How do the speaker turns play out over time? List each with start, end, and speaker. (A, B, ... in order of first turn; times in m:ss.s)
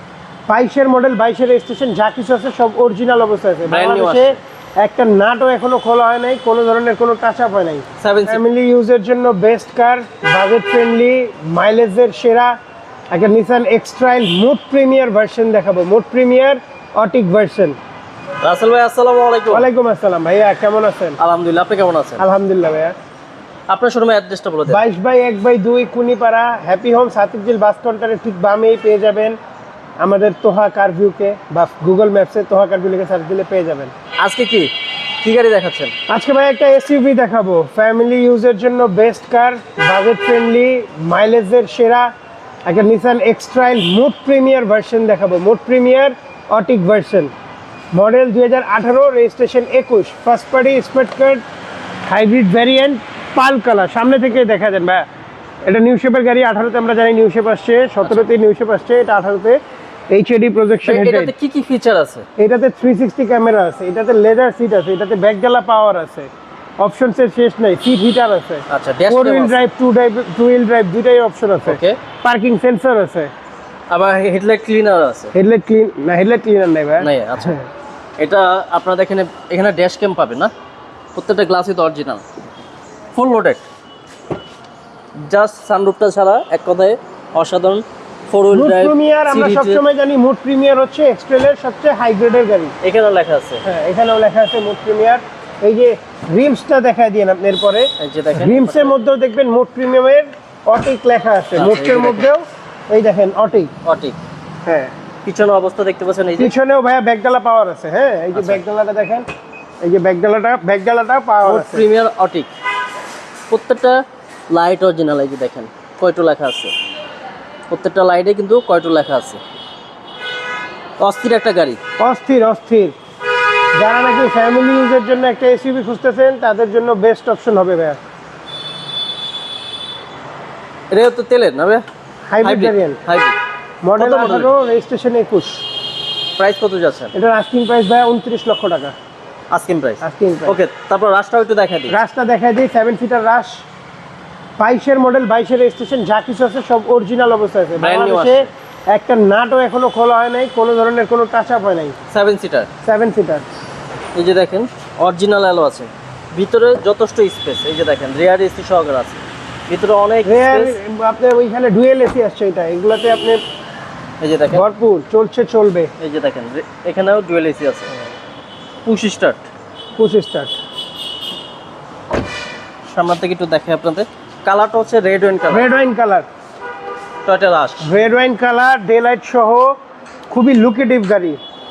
0:00.5-0:12.6 A
0:03.6-0:04.4 B
0:08.0-0:08.4 B
0:13.1-0:17.8 A
0:18.4-0:19.7 B
0:19.5-0:21.2 A
0:21.2-0:22.2 B
0:22.2-0:22.9 A
0:23.7-0:24.8 B
0:24.7-0:29.4 A
0:30.0-0:33.9 A
0:34.2-0:34.7 B
0:35.2-0:35.9 B
0:36.1-0:42.1 A
0:42.6-0:47.3 A
0:47.9-0:51.4 A
0:52.1-0:55.0 A
0:55.6-1:01.3 A
1:00.8-1:02.2 B
1:02.4-1:13.3 A
1:08.7-1:09.6 B
1:11.6-1:12.0 B
1:13.9-1:15.3 B
1:15.3-1:17.6 A
1:17.0-1:17.6 B
1:18.2-1:20.5 B
1:21.1-1:22.2 B
1:23.1-1:23.6 B
1:25.2-1:29.8 B
1:28.5-1:32.7 A
1:32.8-1:33.6 B
1:33.6-1:43.7 A
1:38.0-1:38.9 B
1:41.5-1:42.3 B
1:43.8-1:44.2 B
1:44.6-1:44.9 A
1:45.2-1:46.5 B
1:46.4-1:49.3 A
1:48.3-1:48.6 B
1:49.8-1:51.8 A
1:51.4-1:52.5 B
1:53.5-1:56.7 B
1:57.7-1:59.4 B
2:01.0-2:01.8 B
2:02.0-2:03.0 A
2:03.7-2:08.0 A
2:10.9-2:11.8 B
2:12.3-2:13.0 A
2:12.4-2:13.4 B
2:13.8-2:15.6 A
2:14.0-2:14.6 B
2:16.4-2:17.1 B
2:17.1-2:18.9 A
2:19.5-2:22.0 B
2:20.0-2:20.6 A
2:21.9-2:23.6 A
2:24.6-2:32.0 A
2:27.8-2:28.5 B
2:32.1-2:32.7 B
2:32.8-2:33.4 A
2:34.1-2:40.8 B
2:40.2-2:43.4 A
2:44.2-2:44.6 B
2:44.5-2:45.9 A
2:46.0-2:47.9 B
2:48.8-2:49.4 B
2:50.0-2:50.6 A
2:52.9-2:55.7 B
2:55.5-2:56.3 A
2:57.2-2:57.9 B
2:57.8-2:59.8 A
3:00.3-3:01.4 A